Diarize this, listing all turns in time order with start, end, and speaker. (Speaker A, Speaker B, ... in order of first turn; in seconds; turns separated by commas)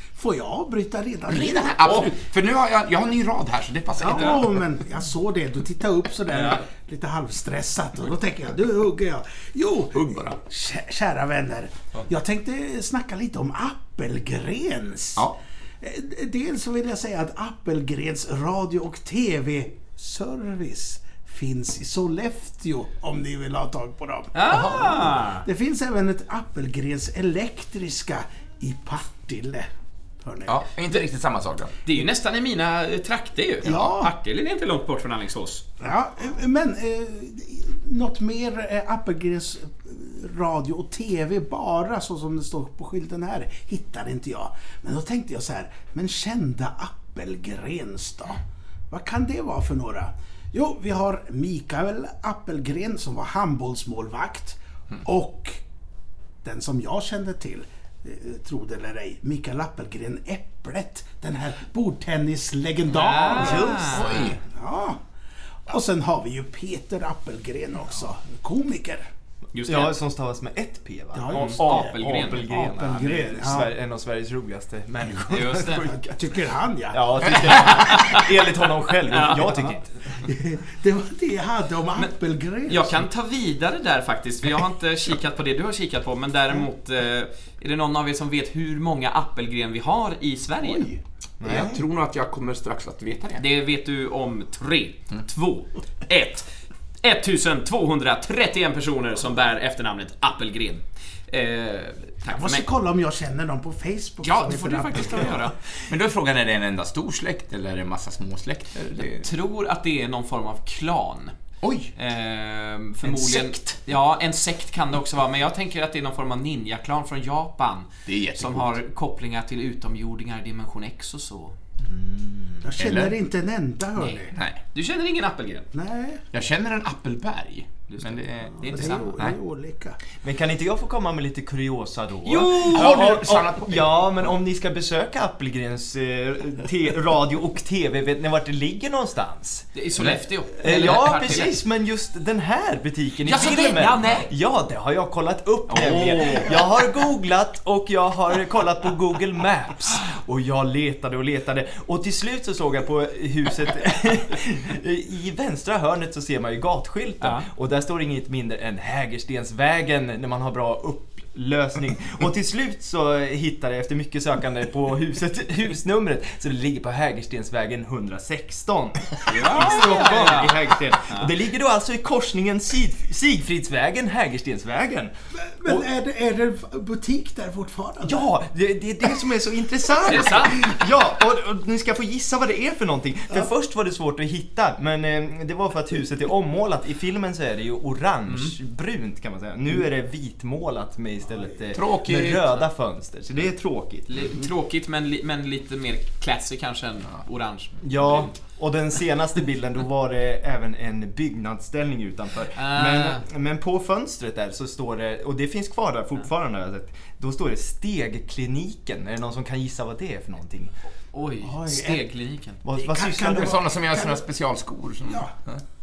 Speaker A: 0.1-2.1, Speaker B: 1.3-4.7, Speaker C: 1.9-2.1, Speaker A: 4.0-15.3, Speaker C: 4.1-4.4, Speaker C: 6.3-6.6, Speaker B: 9.9-10.4, Speaker A: 15.8-29.7, Speaker C: 24.3-25.4, Speaker B: 24.5-25.1, Speaker A: 30.2-30.6, Speaker B: 30.5-31.8, Speaker C: 31.8-35.7, Speaker A: 33.6-34.1, Speaker A: 35.8-55.6, Speaker A: 56.4-63.9, Speaker C: 62.9-64.3, Speaker D: 63.3-64.1, Speaker B: 63.6-64.4, Speaker A: 64.5-65.0, Speaker A: 65.6-69.0, Speaker C: 69.5-69.9, Speaker D: 69.7-76.2, Speaker A: 71.1-73.7, Speaker C: 71.3-72.8, Speaker C: 75.3-75.9, Speaker A: 75.7-77.6, Speaker D: 76.9-80.1, Speaker C: 77.5-78.3, Speaker C: 79.1-79.6, Speaker A: 80.2-83.0, Speaker C: 82.7-91.0, Speaker D: 91.4-91.8, Speaker B: 91.4-93.4, Speaker C: 93.4-96.5, Speaker C: 97.0-102.7, Speaker A: 102.3-105.5, Speaker C: 104.2-105.5, Speaker B: 105.8-109.3, Speaker C: 109.0-111.3, Speaker B: 111.6-111.9, Speaker C: 112.0-121.6, Speaker B: 118.1-118.7, Speaker D: 121.8-122.7, Speaker A: 122.6-124.3, Speaker B: 122.8-123.2, Speaker C: 124.0-125.7, Speaker B: 124.3-124.6, Speaker A: 125.7-126.2, Speaker B: 126.3-129.4, Speaker C: 127.9-129.1, Speaker A: 128.7-130.0, Speaker D: 130.2-139.7, Speaker C: 132.2-133.2, Speaker B: 132.6-134.3, Speaker C: 139.7-141.5, Speaker D: 140.6-175.1, Speaker C: 143.2-144.3, Speaker C: 145.7-146.6, Speaker C: 157.2-157.4, Speaker C: 169.2-171.3, Speaker A: 175.4-178.3, Speaker D: 178.0-194.1, Speaker C: 180.0-180.7, Speaker C: 188.3-188.5, Speaker B: 191.7-192.6, Speaker C: 194.1-198.3, Speaker D: 197.8-210.7, Speaker C: 202.5-203.2, Speaker C: 211.1-212.6, Speaker A: 211.4-212.0, Speaker D: 212.6-213.6, Speaker A: 212.7-214.2, Speaker B: 213.3-215.6